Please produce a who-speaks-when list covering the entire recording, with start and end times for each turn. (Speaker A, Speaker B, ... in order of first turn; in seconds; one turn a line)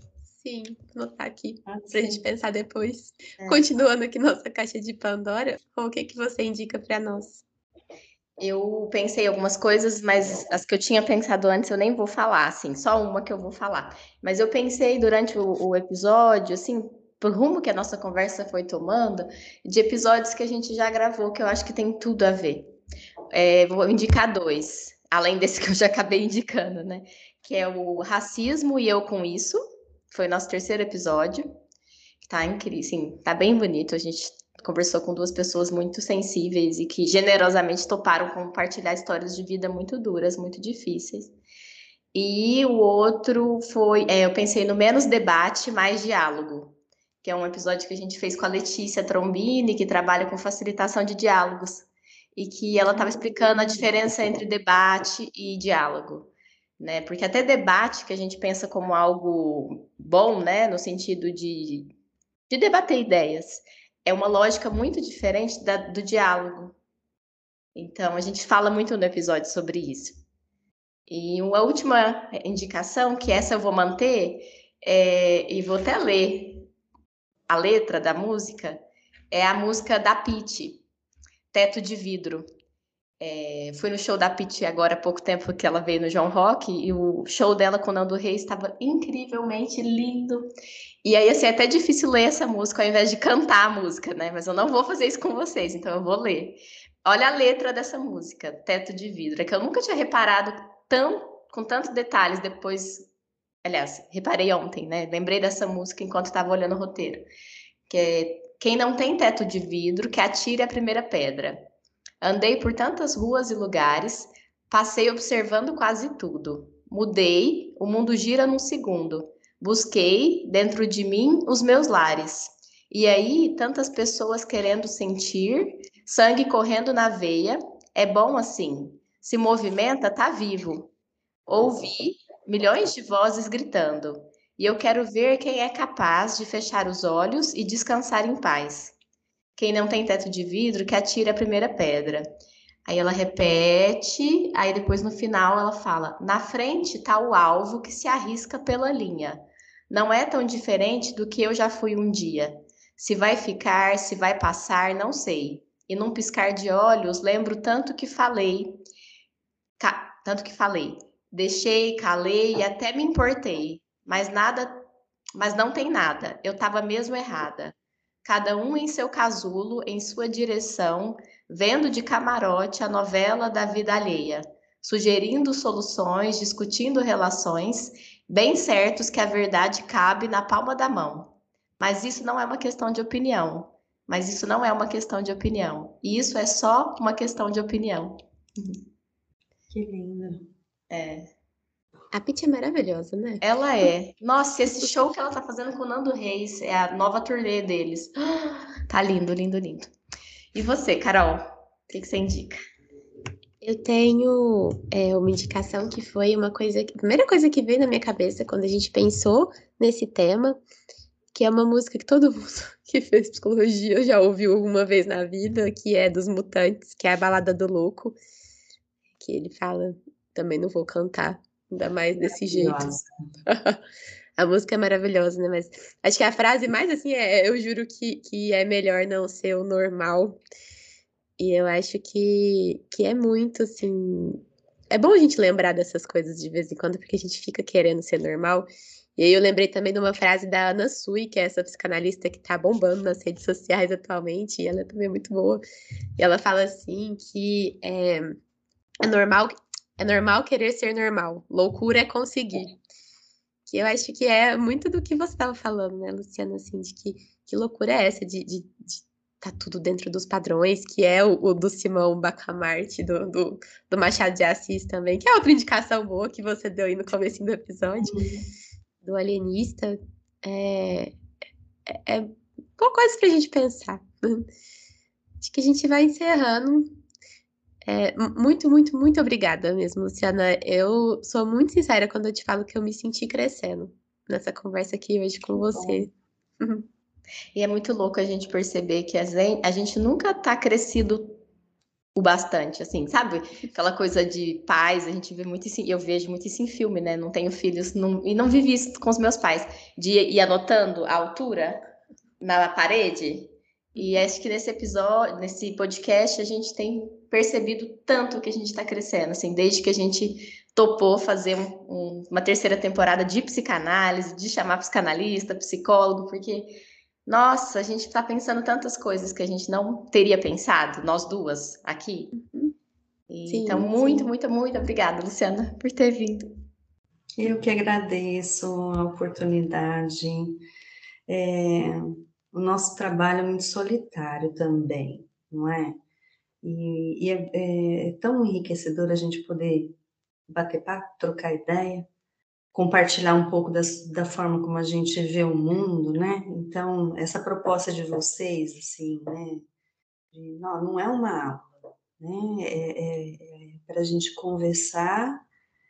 Speaker A: 0.3-7.4
Speaker B: 1.7-2.2
Speaker B: 3.4-3.6
Speaker C: 8.4-22.7
Speaker C: 23.3-29.6
Speaker C: 30.1-31.4
Speaker C: 32.2-41.3
Speaker C: 42.1-61.9
Speaker B: 52.9-53.9
Speaker C: 62.5-66.7
Speaker C: 67.7-70.2
Speaker C: 71.1-76.7
Speaker C: 77.5-80.8
Speaker C: 81.5-82.5
Speaker C: 83.2-90.5
Speaker C: 91.0-103.1
Speaker C: 103.6-107.3
Speaker C: 107.9-111.7
Speaker C: 112.2-130.9
Speaker C: 131.5-138.9
Speaker C: 139.6-142.2
Speaker C: 142.8-158.8
Speaker C: 159.8-164.8
Speaker C: 165.3-167.7
Speaker C: 168.2-188.8
Speaker B: 189.7-190.5
Speaker C: 190.9-191.3
Speaker A: 192.1-193.4
Speaker C: 193.4-199.9
Speaker C: 200.5-202.6
Speaker A: 203.6-210.6
Speaker A: 211.3-218.2
Speaker A: 219.2-222.9
Speaker B: 222.2-223.1
Speaker A: 223.4-223.8
Speaker A: 224.4-230.4
Speaker A: 231.4-245.6
Speaker A: 246.2-248.4
Speaker A: 249.0-252.7
Speaker A: 253.7-268.2
Speaker B: 268.0-268.4
Speaker A: 269.0-271.2
Speaker A: 271.9-274.5
Speaker A: 275.4-277.0
Speaker A: 277.9-286.8
Speaker B: 285.6-286.1
Speaker C: 287.5-291.4
Speaker C: 292.1-301.8
Speaker C: 302.4-316.7
Speaker C: 317.3-322.3
Speaker A: 322.3-322.7
Speaker C: 323.3-326.5
Speaker A: 323.4-324.3
Speaker B: 327.4-330.6
Speaker B: 331.3-336.0
Speaker B: 336.6-339.9
Speaker B: 340.5-342.1
Speaker B: 342.7-349.6
Speaker B: 350.3-355.4